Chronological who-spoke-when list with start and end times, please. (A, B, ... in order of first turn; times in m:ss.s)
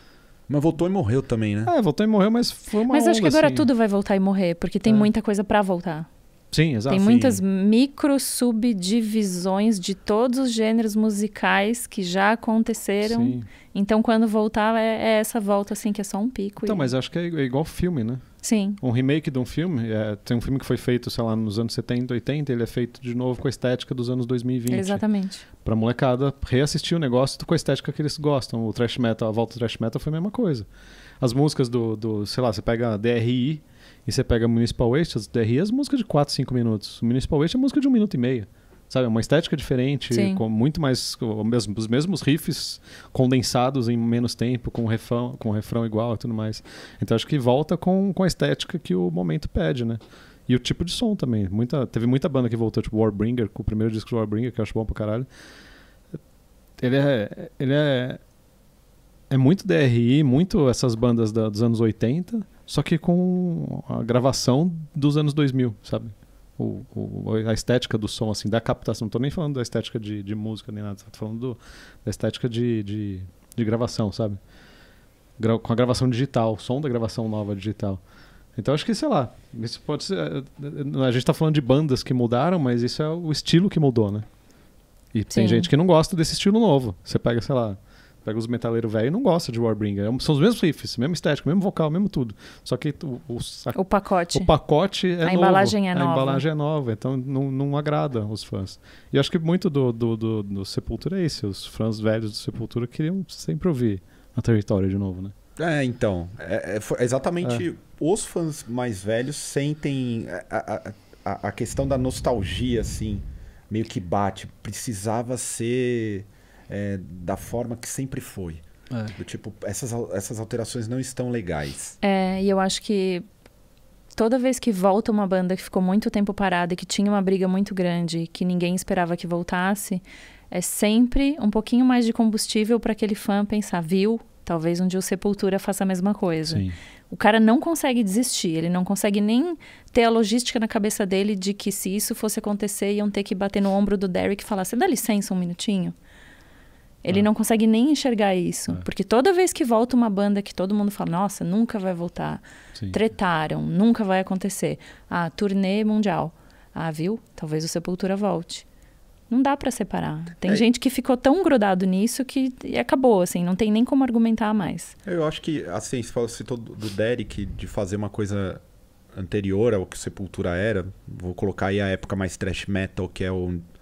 0:00.5-0:01.7 A
0:01.6-0:03.7 B
0:02.9-0:06.1 C
0:06.5-0:07.4 B
0:06.9-0:16.9 C
0:13.0-0:13.5 B
0:16.6-0:18.2 B
0:18.4-0:18.8 C
0:18.8-0:25.0 B
0:24.7-0:25.4 C
0:25.6-0:30.7 B
0:31.2-0:55.3 B
0:40.1-0:40.4 C
0:56.8-0:58.2 B
0:59.3-1:14.4 B
1:15.4-1:18.0 B
1:18.6-1:24.3 B
1:25.1-1:33.8 B
1:25.3-1:25.7 C
1:33.7-1:34.5 C
1:34.3-1:45.3 B
1:35.2-1:36.4 C
1:45.6-1:58.6 A
1:59.1-2:02.0 A
2:02.0-2:03.2 C
2:04.1-2:25.9 C
2:16.4-2:16.7 B
2:27.0-2:38.6 C
2:39.3-2:44.9 C
2:45.0-2:48.6 A
2:49.1-2:53.6 A